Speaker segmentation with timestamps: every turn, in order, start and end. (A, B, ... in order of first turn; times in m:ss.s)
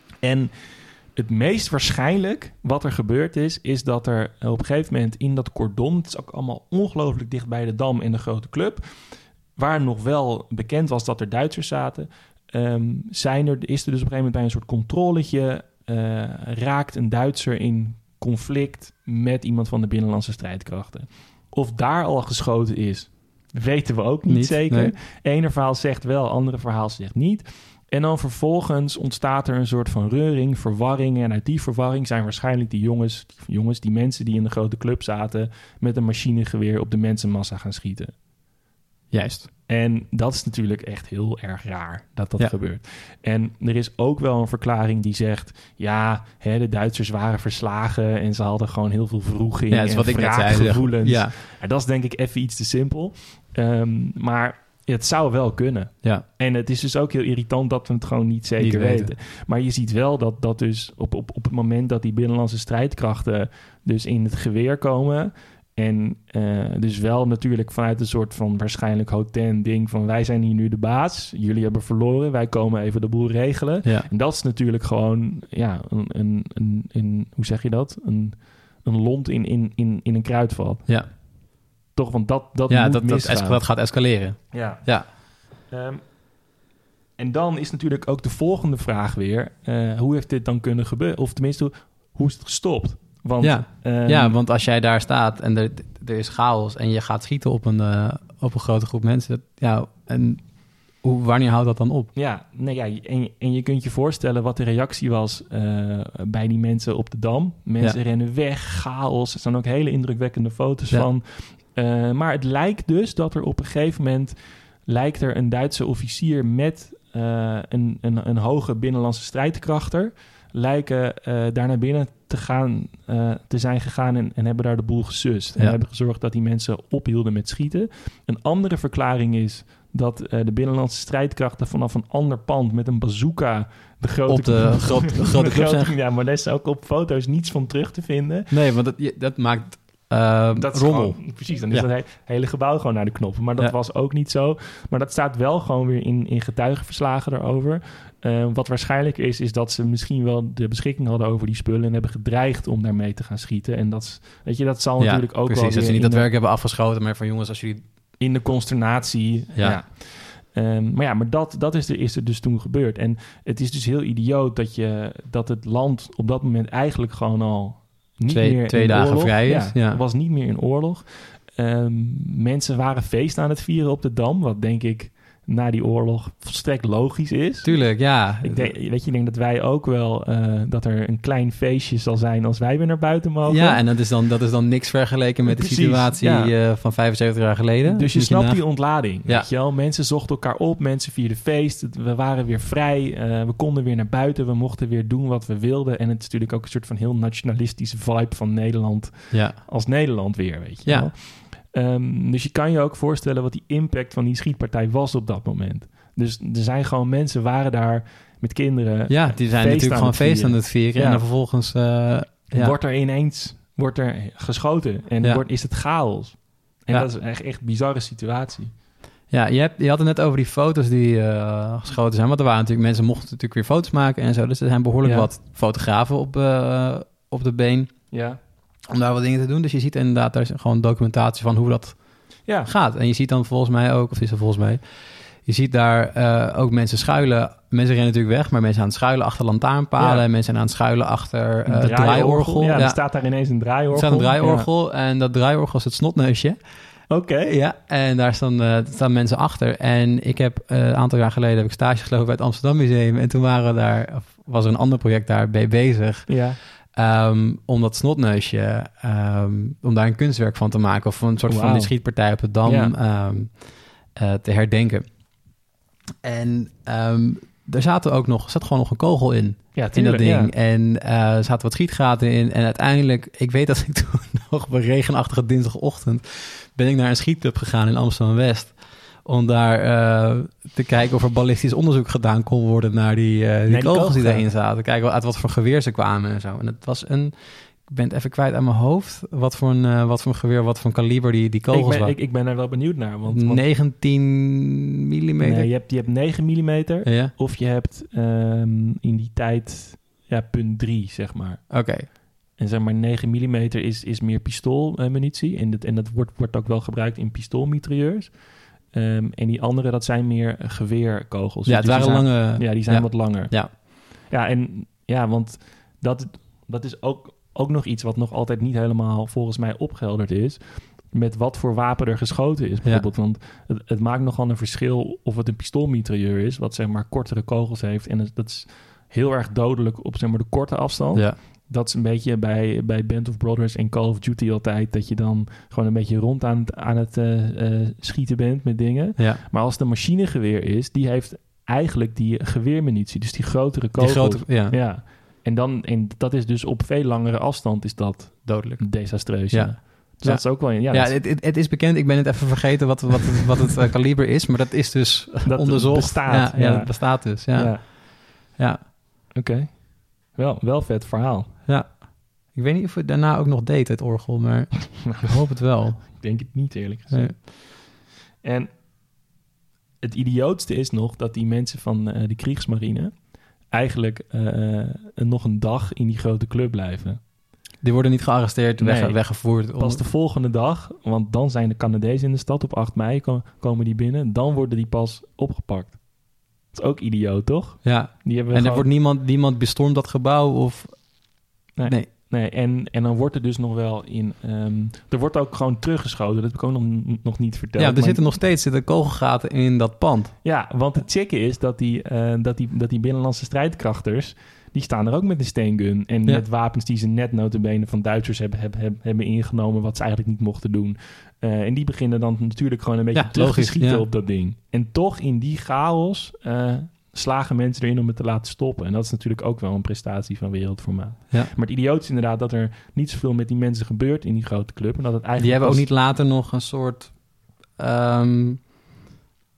0:00.2-0:38.1 A
0:24.3-0:25.0 B
0:39.1-0:39.5 B
0:39.7-1:21.0 A
0:49.7-0:51.4 B
0:58.6-0:59.1 B
1:21.9-1:23.7 A
1:22.7-1:25.1 B
1:24.5-1:26.0 A
1:27.2-1:34.4 A
1:33.4-1:42.1 B
1:42.2-2:18.5 A
2:14.3-2:15.9 B
2:18.5-2:21.9 B
2:20.6-2:36.3 A
2:35.0-2:37.9 B
2:38.2-3:03.8 A
2:39.6-2:39.8 B
2:48.3-2:50.0 B
2:57.6-2:58.7 B
3:03.5-3:09.5 B
3:05.5-3:06.5 A
3:07.9-3:31.2 A
3:19.3-3:19.6 B
3:20.8-3:21.1 B
3:29.1-3:32.8 B
3:32.5-3:38.7 A
3:39.3-3:48.1 B
3:45.0-3:45.3 A
3:48.1-3:48.4 A
3:48.9-4:03.0 B
3:52.5-3:52.7 A
4:00.0-4:00.2 A
4:01.7-4:04.7 A
4:03.9-4:25.1 B
4:07.1-4:07.5 A
4:16.3-4:16.6 A
4:21.5-4:21.9 A
4:22.6-4:22.9 A
4:26.2-4:52.2 B
4:29.8-4:30.5 A
4:43.7-4:44.5 A
4:51.7-4:53.7 A
4:53.3-4:55.7 B
4:55.4-5:51.2 A
4:57.0-4:57.3 B
5:01.7-5:02.1 B
5:11.7-5:13.7 B
5:39.2-5:39.4 B
5:44.0-5:44.8 B
5:48.4-5:58.9 B
5:55.5-5:57.8 A
5:59.4-6:01.5 A
6:01.7-6:06.4 B
6:06.0-6:07.5 A
6:07.1-6:07.4 B
6:08.4-6:08.8 A
6:10.0-6:17.2 A
6:17.8-6:20.0 B
6:18.8-6:26.0 A
6:26.6-6:28.9 A
6:27.8-6:32.1 B
6:31.8-6:38.2 A
6:37.8-6:40.3 B
6:40.4-7:05.9 A
6:53.1-6:54.1 B
7:05.4-7:08.7 B